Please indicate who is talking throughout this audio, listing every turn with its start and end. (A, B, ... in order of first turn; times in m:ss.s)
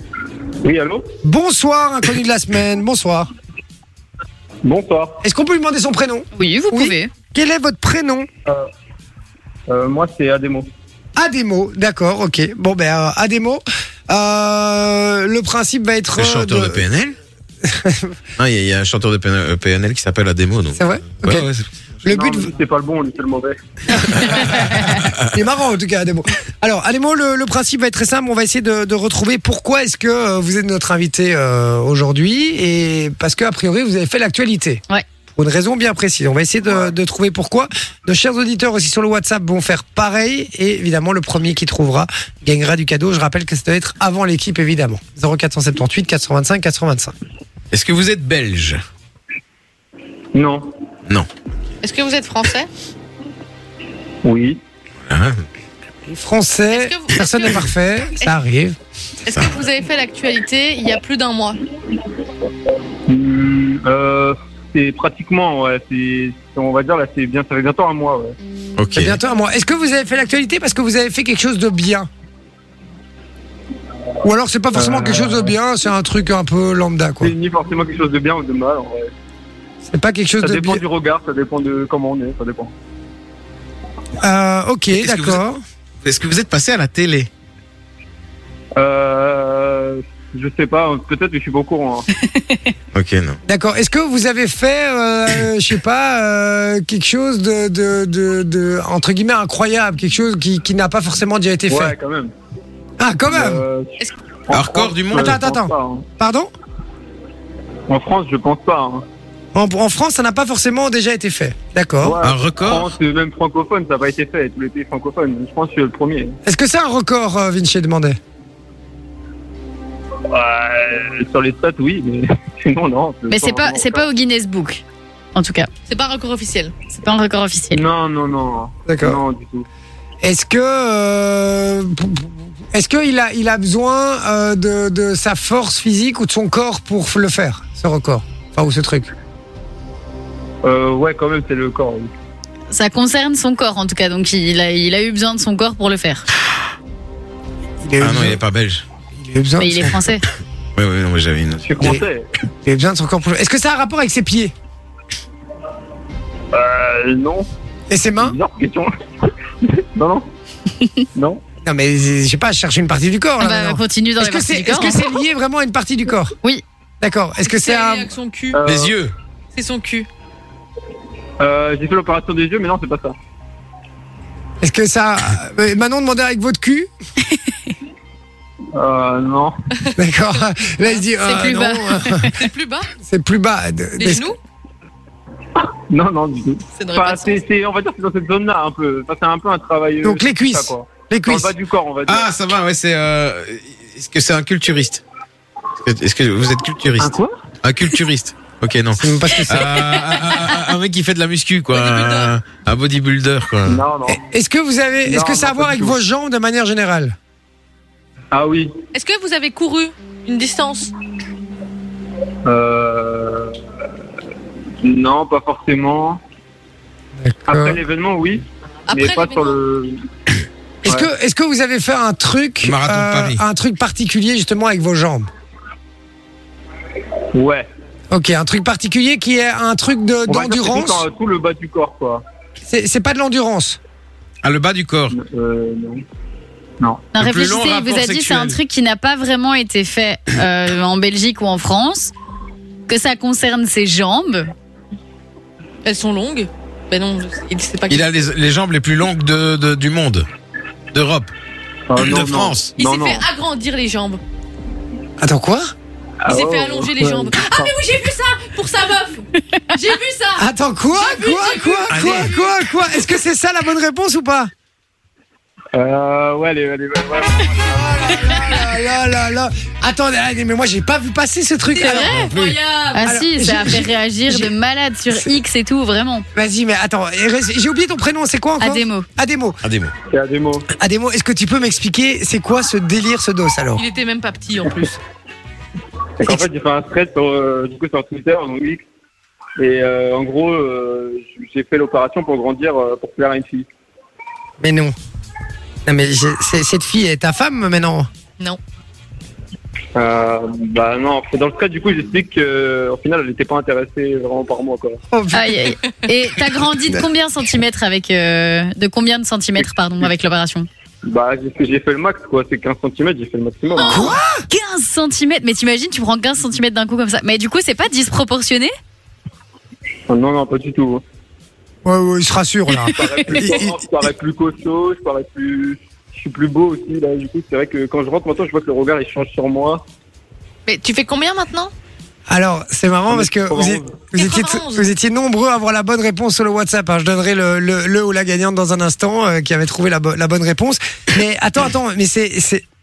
0:00.6-0:01.0 A
0:01.2-0:03.3 B
0:04.6-0:05.2 A
0:05.2-0:08.3 B
0:06.4-0:07.1 C
0:09.7-0:10.7 A
0:11.2-0:16.8 B
0:16.1-0:17.2 D
0:17.6-0:18.2 B
0:18.4-0:21.4 D
0:20.8-0:22.5 B
0:22.0-0:23.6 A
0:23.9-0:47.1 B
0:47.7-0:48.8 D
0:50.3-0:50.7 A
0:51.8-0:52.7 E
0:54.2-0:54.6 A
0:55.0-0:55.4 D
0:56.0-0:58.8 B
0:56.7-0:57.7 E
0:59.2-1:01.6 E
1:03.1-1:08.3 A
1:08.8-1:09.1 D
1:09.0-1:12.1 B
1:14.2-1:17.3 B
1:14.7-1:15.5 A
1:17.2-1:19.1 A
1:19.8-1:20.8 B
1:20.4-1:22.7 A
1:24.2-1:25.6 B
1:24.9-1:25.4 D
1:26.0-1:27.3 D
1:28.8-1:32.1 A
1:32.3-1:32.7 C
1:32.9-1:33.4 D
1:33.5-1:41.9 B
1:41.7-1:42.3 A
1:43.0-1:43.6 B
1:43.3-1:46.0 A
1:44.5-1:45.3 D
1:45.2-1:46.5 B
1:47.9-1:49.0 A
1:49.5-1:52.2 B
1:52.0-1:56.4 A
1:52.2-1:52.9 D
1:56.4-1:58.2 B
2:00.3-2:04.1 A
2:03.3-2:04.8 C
2:05.3-2:05.7 C
2:05.9-2:06.7 E
2:06.9-2:07.8 C
2:07.7-2:09.7 A
2:08.8-2:09.2 B
2:10.2-2:19.1 B
2:20.6-2:22.1 A
2:22.7-2:26.3 C
2:27.8-2:28.4 B
2:28.0-2:28.8 D
2:29.1-2:30.0 B
2:29.6-2:30.2 C
2:30.8-2:31.9 D
2:31.6-2:32.3 A
2:32.6-2:34.5 B
2:36.5-2:37.4 A
2:37.9-2:38.4 B
2:38.2-2:38.9 A
2:39.6-2:40.3 A
2:41.1-2:41.4 A
2:41.6-2:46.3 B
2:43.4-2:45.1 C
2:47.0-2:48.1 B
2:47.4-2:48.6 E
2:48.5-2:48.9 A
2:48.6-2:49.1 D
2:49.5-2:50.1 E
2:51.4-2:53.2 A
2:54.6-2:56.9 B
2:58.7-2:59.5 A
3:00.0-3:02.3 B
3:01.2-3:02.4 C
3:02.4-3:02.9 E
3:03.0-3:04.3 B
3:04.0-3:04.4 E
3:05.6-3:12.3 A
3:06.8-3:07.4 E
3:10.0-3:11.5 B
3:12.0-3:15.0 D
3:15.8-3:23.8 D
3:17.0-3:17.3 A
3:19.0-3:19.6 B
3:21.7-3:22.3 E
3:23.6-3:24.2 A
3:24.0-3:27.1 B
3:25.0-3:26.0 A
3:28.3-3:28.7 A
3:28.9-3:30.9 E
3:32.4-3:33.6 A
3:34.8-3:36.2 A
3:37.2-3:37.8 B
3:37.5-3:40.0 A
3:38.9-3:39.6 E
3:40.8-3:45.3 B
3:42.6-3:43.3 D
3:47.3-3:47.6 A
3:48.1-3:51.0 B
3:50.3-3:52.2 A
3:52.6-3:53.8 B
3:54.4-3:55.2 D
3:55.1-3:56.0 A
3:56.8-3:57.1 A
3:57.2-3:58.6 D
3:57.2-4:02.1 C
4:02.9-4:04.5 C
4:05.8-4:08.1 E
4:07.9-4:10.3 D
4:10.9-4:11.3 D
4:11.9-4:13.2 A
4:12.0-4:12.7 D
4:12.8-4:14.2 E
4:15.2-4:15.7 B
4:16.2-4:17.7 A
4:16.3-4:22.6 E
4:20.4-4:24.5 B
4:25.7-4:27.8 A
4:27.7-4:34.5 B
4:31.7-4:33.0 E
4:32.9-4:36.2 C
4:36.3-4:39.6 B
4:38.6-4:39.1 C
4:39.6-4:39.9 D
4:40.1-4:40.7 A
4:40.7-4:43.8 B
4:43.7-4:45.0 E
4:46.2-4:48.8 A
4:49.6-4:53.7 A
4:54.6-4:55.0 B
4:55.8-4:58.1 B
4:59.9-5:05.0 A
5:05.1-5:05.6 B
5:05.3-5:10.7 C
5:09.6-5:10.1 A
5:11.0-5:14.0 A
5:13.8-5:18.7 C
5:13.8-5:14.4 B
5:20.1-5:21.0 A
5:21.8-5:23.7 B
5:22.7-5:23.5 C
5:22.9-5:29.8 A
5:30.6-5:31.7 E
5:32.3-5:42.6 B
5:33.1-5:34.0 A
5:34.1-5:34.9 E